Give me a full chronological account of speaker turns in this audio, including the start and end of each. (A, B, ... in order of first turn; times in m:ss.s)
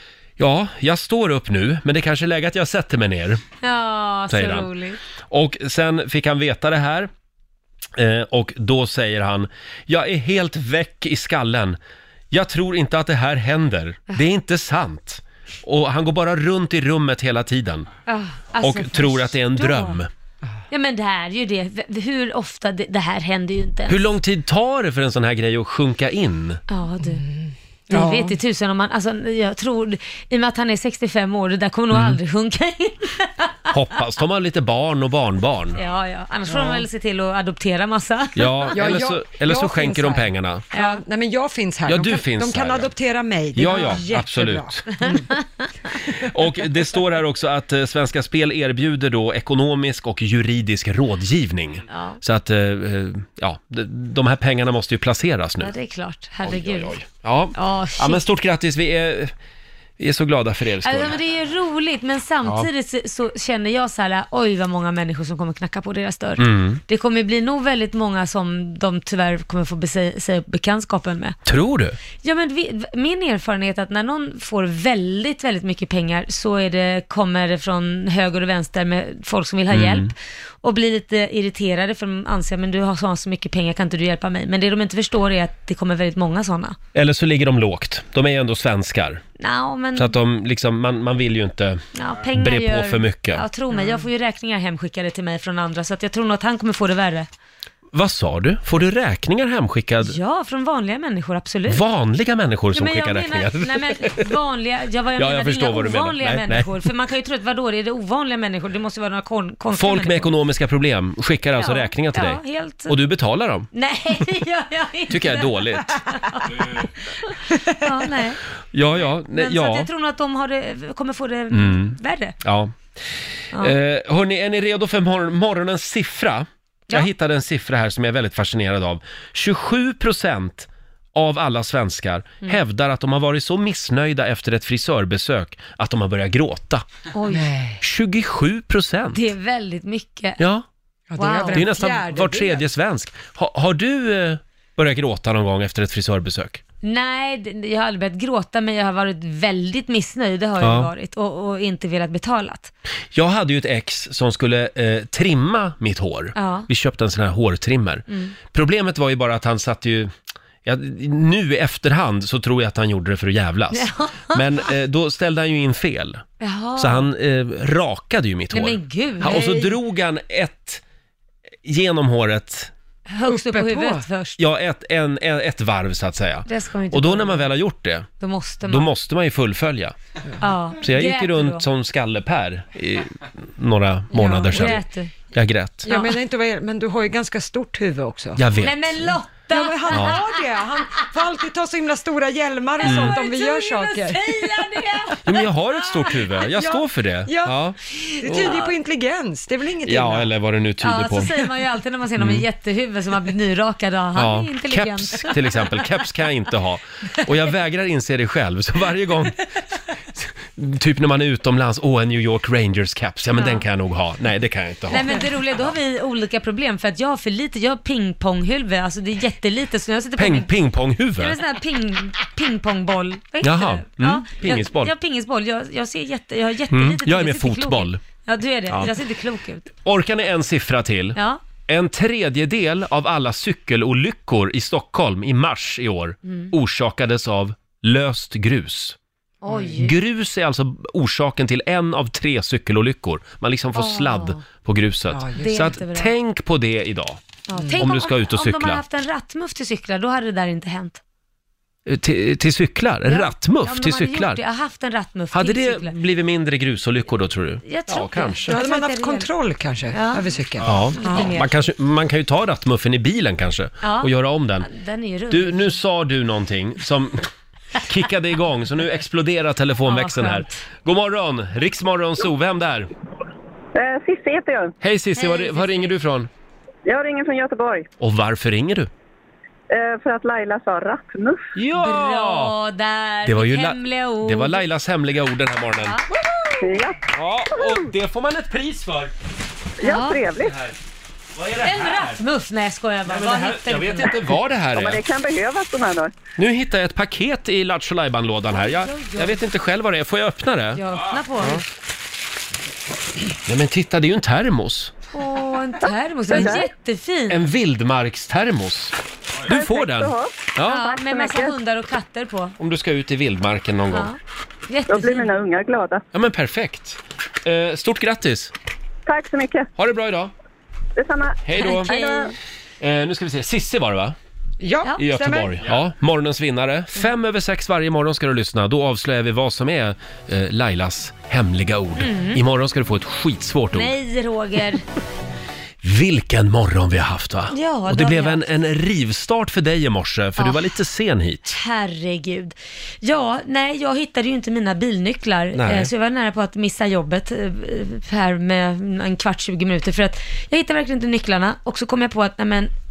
0:00.4-0:03.4 A
0:03.6-0:05.0 B
0:04.3-0:04.7 A
0:05.3-0:07.1 A
0:08.0-0:11.8 A
0:12.3-0:17.9 A
0:18.1-0:20.0 B
0:18.6-0:20.1 A
0:20.7-0:24.1 B
0:23.9-0:26.6 A
0:26.7-0:27.2 B
0:27.1-0:28.4 C
0:27.9-0:33.6 B
0:31.9-0:32.2 A
0:33.7-0:35.8 A
0:35.8-0:38.8 B
0:36.5-0:36.8 C
0:38.4-0:40.6 A
0:38.7-0:45.3 C
0:40.7-0:41.0 B
0:41.9-0:42.9 A
0:43.6-0:44.9 A
0:43.7-0:44.0 B
0:45.0-0:45.6 B
0:46.0-0:55.7 A
0:51.9-0:52.2 B
0:55.6-0:56.9 B
0:56.4-0:59.3 A
0:57.6-0:58.2 B
1:00.0-1:01.2 A
1:00.8-1:11.4 B
1:06.4-1:06.8 A
1:11.5-1:12.0 A
1:12.2-1:26.8 B
1:19.7-1:20.1 A
1:27.0-1:29.2 A
1:29.4-1:30.2 B
1:30.0-1:31.8 A
1:32.0-1:37.3 B
1:32.4-1:33.4 A
1:33.7-1:34.0 C
1:37.9-1:40.2 A
1:40.0-1:41.8 B
1:41.7-1:44.3 A
1:42.7-1:50.3 B
1:45.2-1:46.7 A
1:49.7-1:53.7 A
1:51.6-1:53.0 B
1:53.7-1:58.4 B
1:55.1-1:55.9 A
1:58.7-1:59.9 A
1:59.0-2:02.4 B
2:01.5-2:02.7 A
2:03.6-2:16.8 A
2:17.1-2:17.5 B
2:17.3-2:17.8 C
2:17.8-2:19.3 A
2:19.2-2:20.4 B
2:20.4-2:20.6 A
2:21.1-2:22.6 C
2:21.2-2:21.7 B
2:21.5-2:26.6 A
2:26.8-2:32.7 B
2:30.6-2:30.9 A
2:33.1-2:40.1 A
2:36.4-2:36.7 B
2:38.1-2:38.4 B
2:40.6-2:46.2 A
2:43.7-2:44.7 B
2:46.4-2:47.1 B
2:46.8-2:50.8 A
2:48.5-2:49.8 B
2:51.6-2:52.7 A
2:53.1-2:54.4 B
2:53.3-2:54.0 C
2:54.4-2:58.1 A
2:56.5-2:57.5 B
2:58.2-2:58.9 B
2:58.7-3:00.0 A
3:00.4-3:01.6 B
3:00.8-3:04.8 A
3:04.1-3:04.8 C
3:04.2-3:05.1 B
3:05.3-3:05.9 A
3:05.9-3:06.1 B
3:05.9-3:08.4 C
3:08.4-3:09.1 A
3:08.6-3:10.4 B
3:09.5-3:14.7 C
3:09.9-3:10.2 A
3:12.8-3:16.4 B
3:12.8-3:13.2 A
3:15.2-3:18.5 A
3:16.5-3:17.6 C
3:18.2-3:20.3 C
3:18.2-3:18.7 B
3:19.9-3:21.3 A
3:20.8-3:25.9 B
3:22.2-3:22.4 A
3:24.2-3:29.4 A
3:30.6-3:35.7 A
3:33.4-3:33.6 B
3:34.9-3:40.5 B
3:40.2-3:41.4 A
3:41.2-3:49.7 B
3:43.4-3:44.9 A
3:46.7-3:48.0 A
3:49.8-3:59.0 A
3:51.2-3:51.4 B
3:59.4-3:59.9 B
3:59.5-3:59.8 C
3:59.8-4:07.2 A
4:03.8-4:04.4 B
4:05.1-4:05.7 C
4:05.4-4:06.1 B
4:07.5-4:11.0 B
4:07.6-4:07.8 C
4:07.8-4:08.8 A
4:11.9-4:14.4 A
4:13.1-4:16.0 B
4:15.3-4:18.5 A
4:17.6-4:19.3 B
4:18.5-4:21.4 C
4:19.9-4:20.3 B
4:20.6-4:24.7 A
4:21.0-4:21.5 B
4:23.8-4:25.8 B
4:25.3-4:27.3 A
4:27.8-4:32.9 A
4:29.9-4:30.6 B
4:33.8-4:34.8 D
4:34.8-4:36.3 A
4:35.2-4:35.9 B
4:36.9-4:37.9 D
4:38.0-4:38.9 A
4:39.7-4:41.4 D
4:41.6-4:42.5 A
4:41.8-4:44.7 B
4:43.3-4:49.1 A
4:46.6-4:47.0 D
4:47.5-4:47.8 D
4:49.8-4:50.6 D
4:49.8-4:50.2 B
4:50.4-4:50.8 A
4:51.4-4:52.2 A
4:51.6-4:54.2 B
4:53.1-4:55.0 A
4:54.7-4:56.1 D
4:56.4-5:00.8 A
4:58.5-4:59.4 B
5:00.8-5:01.6 B
5:03.4-5:04.9 A
5:05.1-5:07.4 B
5:06.3-5:06.6 D
5:06.3-5:06.6 A
5:07.3-5:09.0 A
5:09.5-5:10.8 A
5:09.5-5:11.6 D
5:10.7-5:12.6 B
5:12.6-5:14.1 A
5:13.9-5:14.2 B
5:14.7-5:15.3 B
5:14.9-5:16.0 D
5:16.1-5:18.5 A
5:19.1-5:19.7 D
5:19.8-5:20.3 A
5:21.0-5:22.3 D
5:21.4-5:21.9 A
5:21.6-5:22.3 B
5:22.8-5:24.2 A
5:24.6-5:25.6 C
5:25.0-5:33.9 A
5:32.0-5:32.4 B
5:33.7-5:34.8 B
5:35.8-5:41.6 A
5:37.5-5:38.4 B
5:40.4-5:40.7 B
5:41.5-5:52.7 B
5:45.6-5:45.9 A